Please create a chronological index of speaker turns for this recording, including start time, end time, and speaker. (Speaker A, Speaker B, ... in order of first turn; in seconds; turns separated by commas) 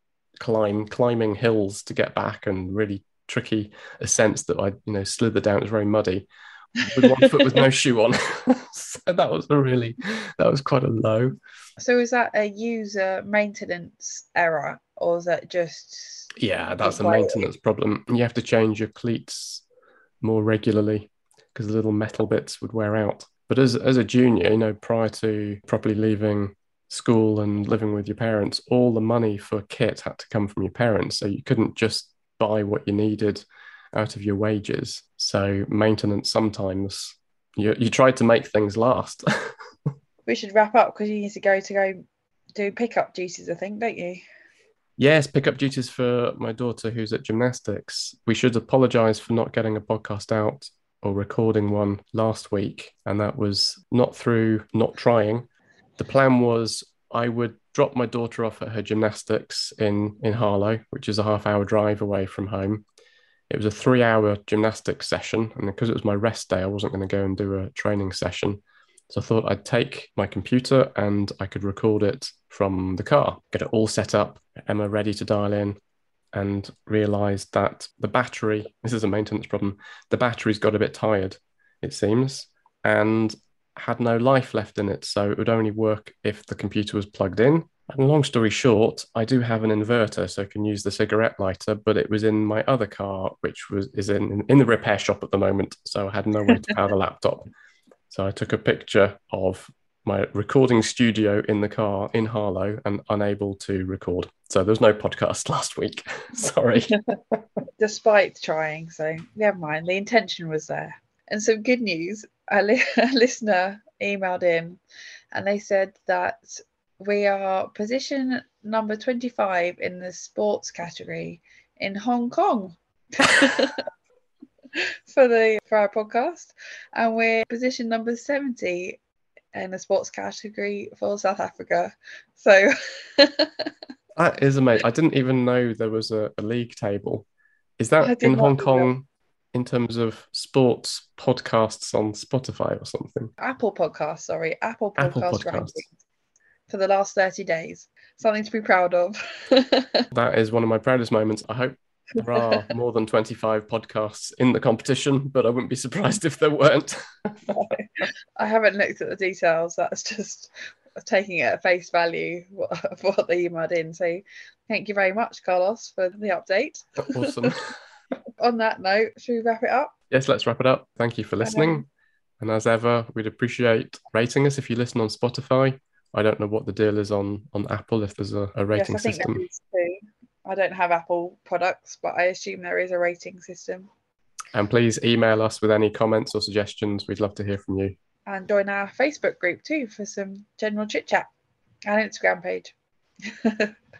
Speaker A: 0.4-6.3, Speaker A: 6.8-11.4, Speaker B: 7.0-7.4, Speaker B: 11.8-16.3, Speaker A: 16.4-19.6, Speaker B: 16.8-17.5, Speaker A: 20.2-39.5, Speaker B: 40.3-42.0, Speaker B: 42.5-44.2, Speaker A: 45.0-62.9, Speaker A: 63.5-75.8, Speaker A: 76.3-97.5, Speaker A: 98.1-107.4, Speaker B: 107.8-114.8, Speaker B: 115.3-123.9, Speaker B: 125.1-129.0, Speaker B: 129.5-133.7, Speaker A: 134.2-137.3, Speaker A: 137.8-143.3, Speaker B: 138.0-138.9, Speaker B: 143.4-145.9, Speaker A: 145.0-145.8, Speaker B: 146.7-150.1, Speaker A: 150.1-157.6, Speaker B: 152.4-152.7, Speaker B: 157.5-167.6, Speaker A: 167.0-167.7, Speaker B: 168.4-169.9, Speaker A: 170.1-171.9, Speaker B: 171.4-171.8, Speaker A: 172.4-179.4, Speaker B: 178.7-183.9, Speaker A: 184.5-187.9, Speaker B: 188.3-191.3, Speaker B: 191.9-192.7, Speaker B: 193.2-193.7